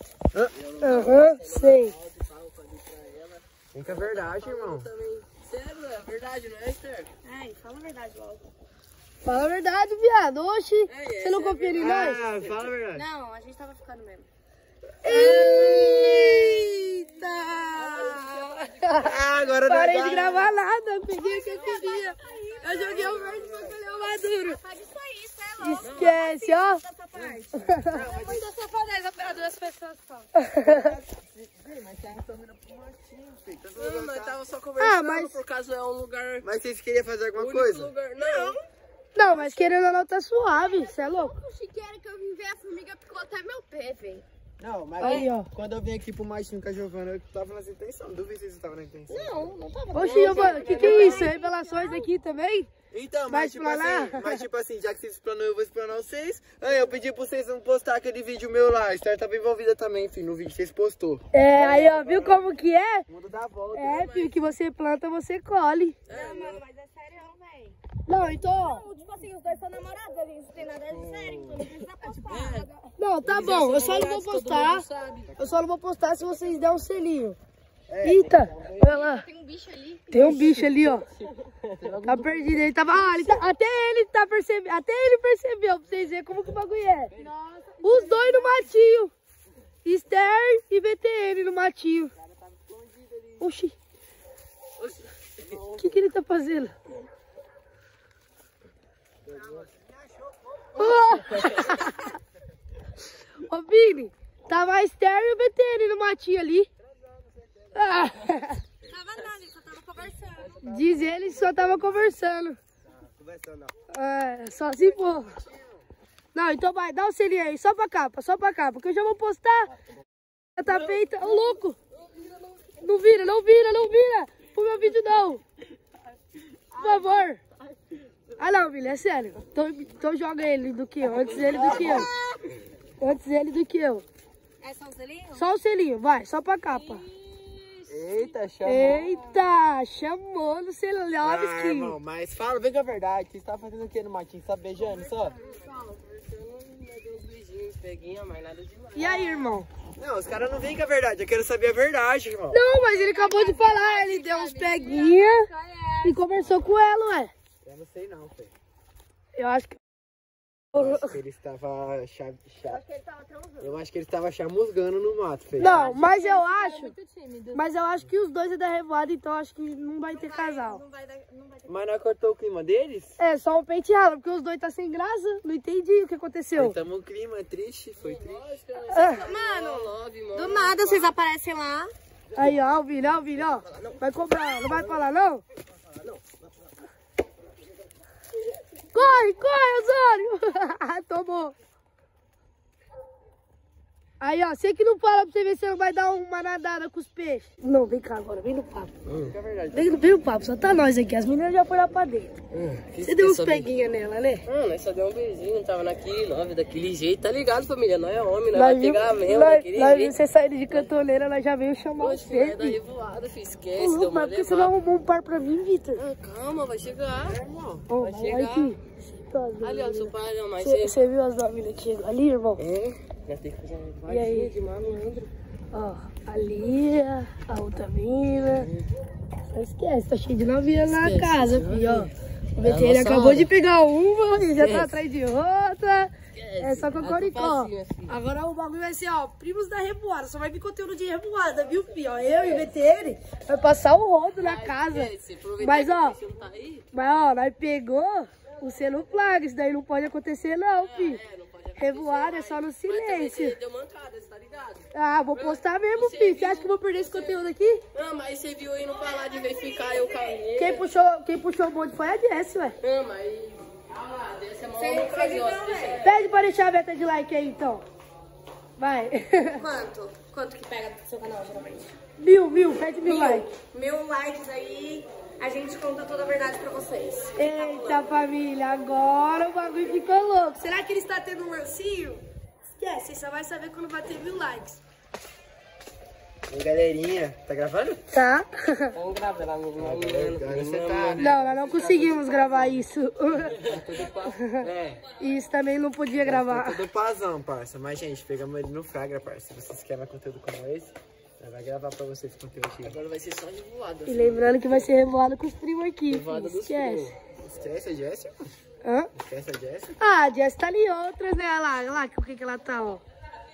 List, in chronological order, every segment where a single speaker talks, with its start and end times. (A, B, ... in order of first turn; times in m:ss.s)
0:00.5-0:07.1 A
0:00.8-0:02.0 B
0:03.7-0:04.9 C
0:07.2-0:08.4 D
0:09.2-0:12.2 B
0:10.9-0:12.7 A
0:11.8-0:13.0 C
0:12.9-0:14.3 D
0:15.0-0:19.1 B
0:15.1-0:15.5 D
0:15.1-0:16.6 C
0:15.3-0:16.2 A
0:17.7-0:19.6 A
0:18.9-0:20.5 C
0:19.6-0:24.6 B
0:20.0-0:30.3 D
0:22.6-0:23.8 C
0:23.0-0:23.3 A
0:25.6-0:26.8 B
0:25.8-0:26.2 A
0:27.1-0:28.4 C
0:27.6-0:28.0 B
0:30.4-0:31.0 B
0:30.6-0:34.4 C
0:33.8-0:36.5 A
0:34.8-0:35.4 B
0:36.4-0:37.9 C
0:37.3-0:38.6 A
0:38.2-0:38.6 D
0:39.1-0:41.3 B
0:39.3-0:39.7 D
0:40.5-0:44.2 D
0:44.6-0:49.5 C
0:45.0-0:45.5 B
0:49.1-0:52.1 D
0:49.9-0:52.7 B
0:50.0-0:51.2 A
0:52.9-1:02.4 C
0:53.3-0:54.4 B
1:01.3-1:03.1 B
1:03.1-1:04.0 C
1:03.7-1:06.0 B
1:03.8-1:04.4 A
1:06.1-1:06.6 A
1:06.1-1:07.8 D
1:08.1-1:08.8 B
1:08.5-1:12.9 D
1:10.9-1:11.9 C
1:12.2-1:12.7 A
1:13.0-1:14.8 B
1:13.2-1:15.3 A
1:15.4-1:17.4 B
1:17.9-1:19.0 C
1:18.0-1:19.2 B
1:18.8-1:20.4 D
1:20.1-1:21.1 B
1:21.3-1:22.0 A
1:21.8-1:22.5 C
1:22.0-1:27.2 B
1:27.2-1:28.0 A
1:27.8-1:29.1 B
1:28.0-1:28.5 D
1:29.8-1:32.1 B
1:32.2-1:33.4 C
1:33.4-1:33.7 B
1:34.8-1:35.6 A
1:35.4-1:36.1 C
1:35.8-1:36.7 B
1:39.3-1:41.5 C
1:40.7-1:42.2 B
1:43.4-1:46.7 B
1:47.1-1:48.1 C
1:47.7-1:48.6 B
1:48.9-1:50.7 D
1:50.6-1:52.6 B
1:50.7-1:51.9 C
1:53.0-1:53.7 C
1:53.9-1:55.4 B
1:54.9-1:55.8 C
1:56.3-1:59.7 B
2:00.6-2:01.8 B
2:02.0-2:02.7 A
2:02.8-2:05.4 B
2:06.7-2:07.4 B
2:08.4-2:12.1 B
2:11.4-2:12.4 D
2:11.6-2:12.0 C
2:13.0-2:14.0 B
2:14.6-2:15.5 D
2:15.3-2:17.0 B
2:16.9-2:17.5 D
2:17.9-2:19.2 C
2:18.6-2:22.0 B
2:21.2-2:25.4 C
2:24.9-2:29.5 A
2:25.2-2:25.7 D
2:28.9-2:29.7 B
2:30.0-2:32.6 C
2:32.5-2:35.5 B
2:32.8-2:36.5 D
2:36.0-2:37.3 B
2:37.6-2:38.5 C
2:39.3-2:39.8 B
2:40.7-2:41.2 B
2:40.7-2:42.8 C
2:42.7-2:43.7 D
2:43.6-2:46.0 C
2:45.6-2:46.9 B
2:45.6-2:47.6 D
2:47.5-2:50.8 B
2:50.1-2:51.7 D
2:51.6-2:53.2 C
2:53.2-2:56.8 B
2:56.6-2:58.5 C
2:58.0-3:01.2 A
2:58.9-2:59.2 B
2:59.0-3:01.9 D
3:02.3-3:05.4 B
3:08.9-3:11.5 B
3:14.2-3:18.9 B
3:19.0-3:19.3 A
3:19.2-3:20.2 C
3:19.7-3:22.3 B
3:22.5-3:23.7 A
3:23.0-3:24.4 B
3:24.4-3:30.2 A
3:28.5-3:32.8 B
3:32.0-3:34.7 A
3:33.8-3:36.0 B
3:36.0-3:37.4 A
3:37.2-3:37.9 C
3:37.9-3:42.6 B
3:38.0-3:38.7 A
3:39.6-3:41.0 A
3:42.6-3:45.3 A
3:44.1-3:44.5 B
3:45.7-3:48.7 B
3:48.4-3:48.8 A
3:49.5-4:06.2 B
3:50.8-3:53.5 A
3:54.5-3:55.0 A
3:56.3-3:58.2 A
4:02.4-4:02.7 A
4:04.4-4:06.8 A
4:06.9-4:11.2 B
4:10.8-4:17.4 A
4:11.8-4:13.6 B
4:14.9-4:17.8 B
4:17.9-4:20.8 A
4:19.4-4:20.0 D
4:20.5-4:22.8 B
4:22.8-4:26.1 A
4:24.8-4:26.0 D
4:26.0-4:27.8 B
4:28.8-4:29.6 B
4:29.6-4:31.9 D
4:32.2-4:33.6 B
4:33.0-4:38.1 D
4:37.3-4:42.2 B
4:42.8-4:44.8 B
4:46.5-4:48.0 C
4:48.1-4:49.0 B
4:48.9-4:52.8 A
4:49.8-4:51.3 C
4:51.2-4:53.6 B
4:53.4-4:55.0 A
4:53.6-4:54.1 C
4:54.2-4:54.7 B
4:55.2-4:56.8 B
4:56.2-5:03.0 C
5:02.8-5:04.9 A
5:04.0-5:07.1 B
5:06.1-5:07.2 A
5:07.4-5:08.5 C
5:08.8-5:09.1 B
5:09.1-5:09.9 C
5:10.0-5:13.0 B